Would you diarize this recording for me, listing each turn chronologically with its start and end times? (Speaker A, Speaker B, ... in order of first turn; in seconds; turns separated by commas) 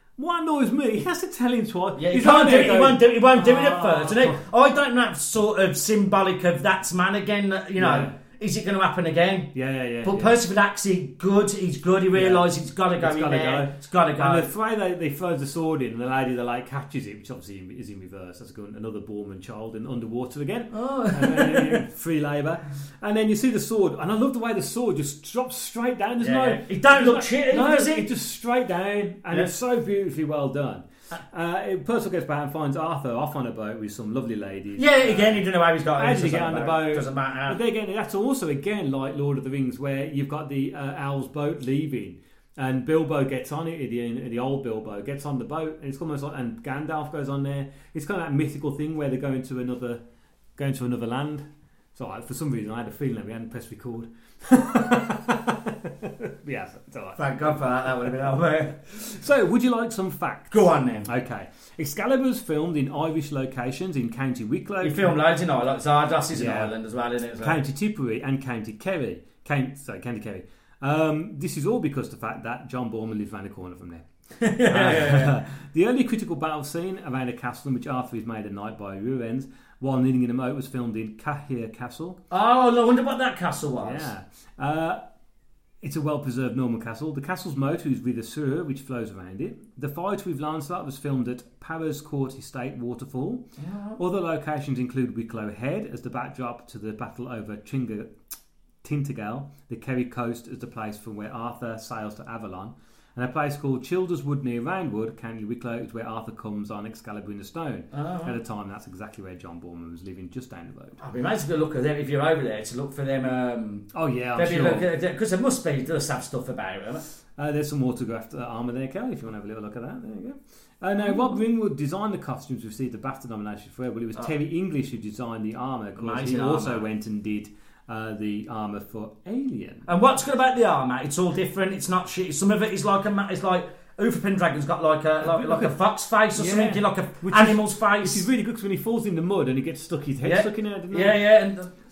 Speaker A: 0.2-4.4, Speaker B: 2.0-14.5, Speaker A: 7.8-8.2, Speaker A: 9.5-10.3, Speaker A: 12.1-50.0, Speaker B: 20.7-21.8, Speaker B: 26.2-28.1, Speaker B: 34.8-37.6, Speaker A: 50.6-57.5, Speaker B: 57.2-58.8, Speaker A: 58.9-65.1, Speaker B: 60.5-61.1, Speaker B: 64.8-67.6, Speaker A: 66.3-66.7, Speaker A: 67.4-74.0, Speaker B: 74.4-75.3, Speaker A: 74.6-82.2, Speaker B: 82.3-84.1, Speaker A: 83.8-85.0, Speaker A: 85.8-93.5, Speaker B: 93.6-94.0, Speaker A: 94.0-98.1, Speaker A: 98.8-111.0, Speaker B: 107.9-108.3, Speaker B: 111.0-117.0, Speaker A: 113.9-114.9, Speaker A: 117.4-129.9, Speaker B: 126.0-126.8, Speaker B: 129.9-138.3, Speaker A: 135.2-135.8, Speaker A: 136.3-141.2, Speaker B: 140.2-141.7